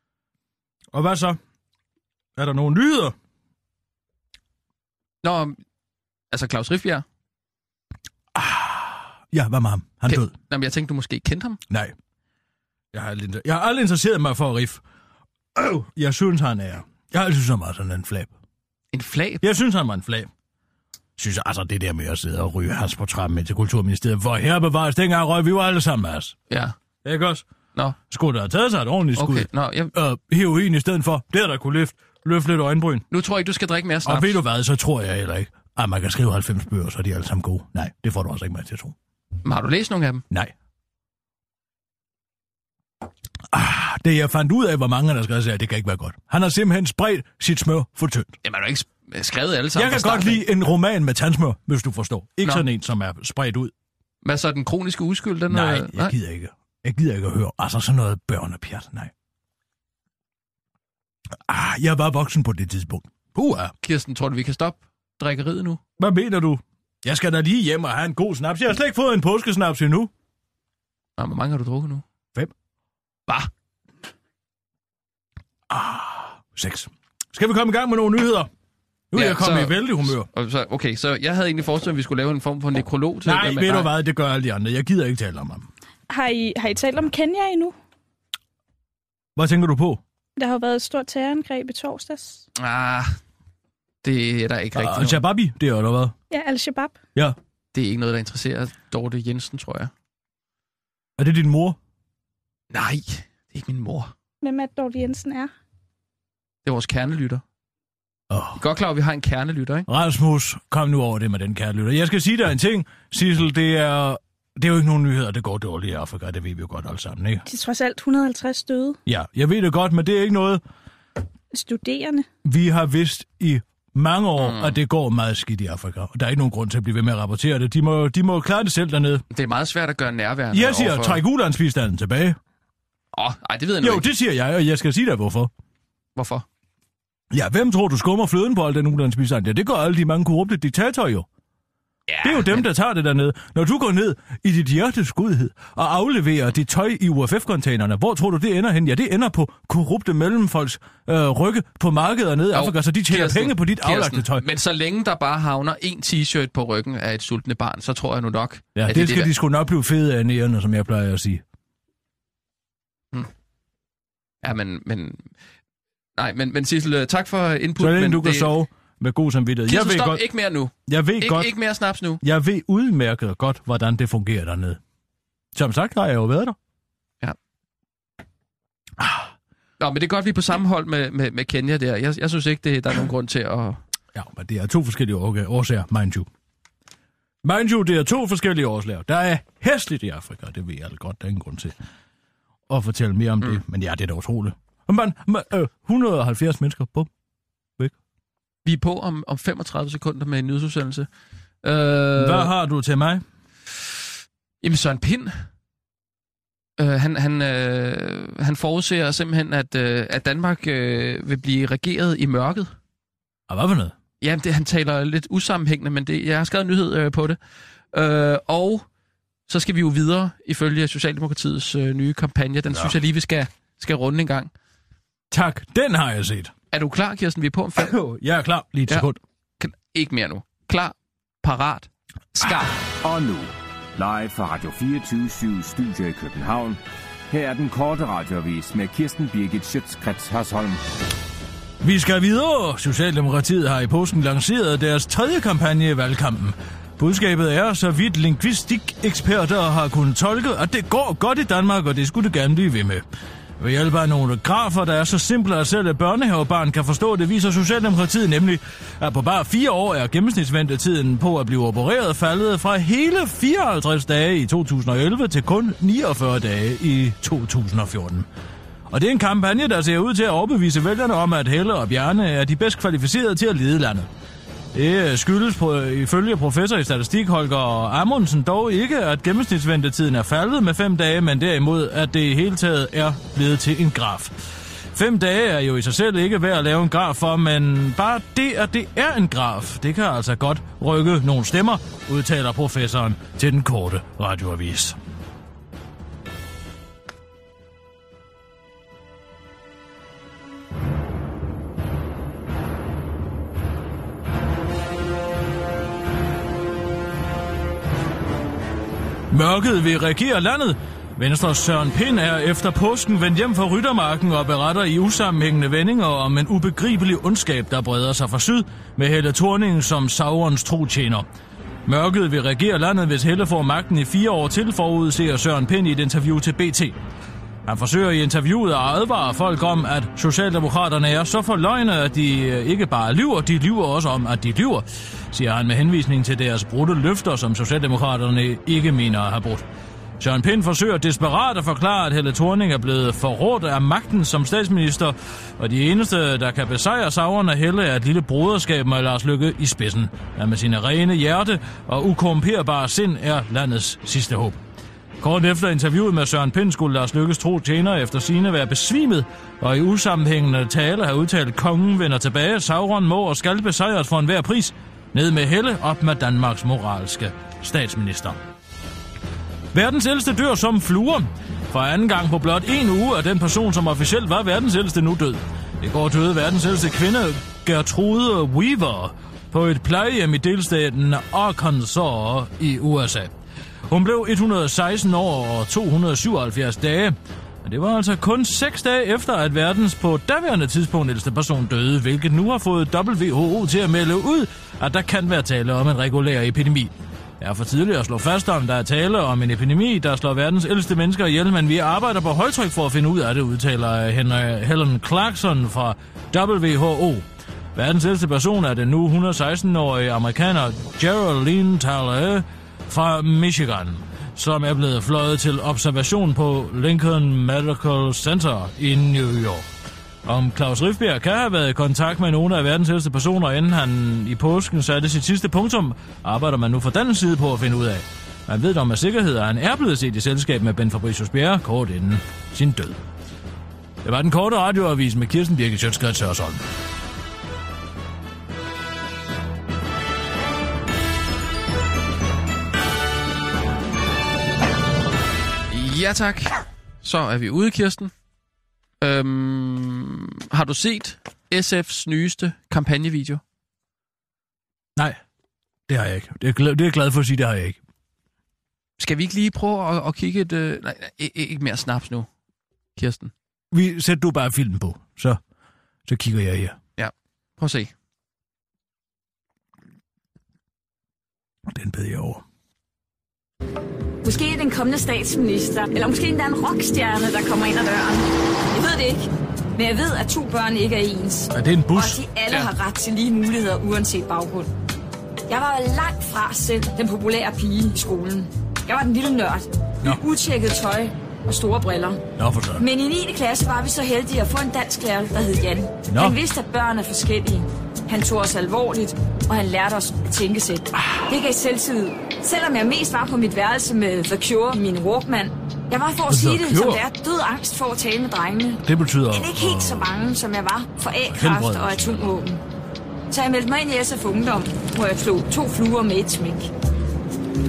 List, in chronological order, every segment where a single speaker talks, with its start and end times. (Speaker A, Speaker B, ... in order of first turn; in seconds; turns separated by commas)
Speaker A: 0.9-1.4, Speaker A: 2.4-3.1, Speaker B: 5.2-5.6, Speaker B: 6.3-7.0, Speaker A: 8.3-10.3, Speaker B: 10.1-11.6, Speaker A: 11.7-11.9, Speaker A: 12.9-14.8, Speaker A: 15.5-18.3, Speaker B: 18.9-19.4, Speaker A: 19.4-20.3, Speaker A: 21.2-26.4, Speaker A: 27.0-27.4, Speaker A: 28.1-33.0, Speaker B: 29.1-29.9, Speaker B: 33.1-34.4, Speaker A: 34.0-38.9, Speaker B: 39.4-40.2, Speaker A: 43.5-48.4, Speaker B: 48.4-50.4, Speaker A: 49.7-53.7, Speaker B: 54.2-56.1, Speaker A: 55.5-59.1, Speaker A: 61.5-63.7, Speaker B: 63.8-65.8, Speaker A: 66.0-70.1, Speaker B: 71.2-72.0, Speaker A: 75.7-78.5, Speaker A: 79.1-80.3, Speaker B: 79.1-83.9, Speaker A: 83.2-85.7, Speaker C: 86.1-87.7, Speaker A: 89.3-90.0, Speaker C: 90.4-92.4, Speaker B: 92.6-93.2, Speaker B: 94.0-95.2, Speaker A: 94.7-96.1, Speaker C: 96.3-97.0, Speaker B: 97.7-99.9, Speaker A: 101.2-101.8, Speaker B: 102.7-104.1, Speaker C: 104.4-105.5, Speaker B: 106.6-107.4, Speaker A: 108.3-108.6, Speaker B: 108.6-109.8, Speaker A: 109.9-117.4, Speaker C: 117.5-119.0, Speaker A: 119.0-120.6, Speaker C: 121.5-122.2, Speaker A: 122.4-129.2, Speaker B: 124.4-124.8, Speaker B: 129.3-131.2, Speaker A: 130.5-132.4, Speaker B: 133.1-134.1, Speaker A: 133.8-135.5, Speaker B: 136.2-136.4, Speaker A: 137.3-141.3, Speaker B: 142.1-142.7, Speaker A: 142.2-154.4, Speaker B: 152.5-159.3, Speaker A: 158.7-161.4, Speaker B: 164.4-165.3, Speaker B: 166.2-168.5, Speaker A: 167.8-171.6, Speaker B: 169.7-172.2, Speaker A: 172.2-174.8, Speaker A: 175.5-176.6, Speaker A: 179.0-179.2, Speaker B: 179.8-183.8, Speaker A: 184.1-186.3, Speaker A: 187.4-191.7, Speaker A: 192.7-197.1, Speaker B: 198.6-201.1, Speaker B: 201.6-202.5, Speaker A: 202.2-203.2, Speaker B: 204.6-205.4, Speaker B: 206.8-212.7, Speaker A: 213.5-213.9, Speaker B: 214.2-217.4, Speaker B: 217.9-218.8, Speaker B: 219.5-224.5, Speaker A: 225.3-226.5, Speaker B: 226.7-227.9, Speaker A: 227.8-229.2, Speaker B: 229.6-232.7, Speaker D: 233.0-240.8, Speaker A: 241.8-253.0, Speaker A: 253.6-268.3, Speaker A: 268.9-274.1, Speaker A: 274.7-284.3, Speaker A: 284.9-295.0, Speaker A: 309.3-321.2, Speaker A: 321.9-326.9, Speaker A: 327.6-339.6, Speaker A: 340.2-354.6, Speaker A: 355.2-368.4, Speaker A: 369.7-383.3, Speaker A: 383.9-419.7, Speaker A: 420.2-433.0, Speaker A: 434.0-436.6, Speaker B: 445.7-448.1, Speaker B: 449.0-453.4, Speaker A: 455.9-457.8, Speaker B: 459.0-462.3, Speaker B: 462.9-463.3, Speaker A: 463.7-465.4, Speaker A: 466.1-466.8, Speaker B: 467.0-467.9, Speaker A: 471.7-472.4, Speaker E: 474.2-484.7, Speaker A: 481.5-482.2, Speaker E: 485.5-492.2, Speaker A: 492.4-492.8, Speaker E: 492.8-512.6, Speaker A: 496.1-496.4, Speaker A: 500.9-501.3, Speaker A: 506.3-507.0, Speaker A: 508.8-510.1, Speaker A: 511.2-512.3, Speaker E: 513.3-516.7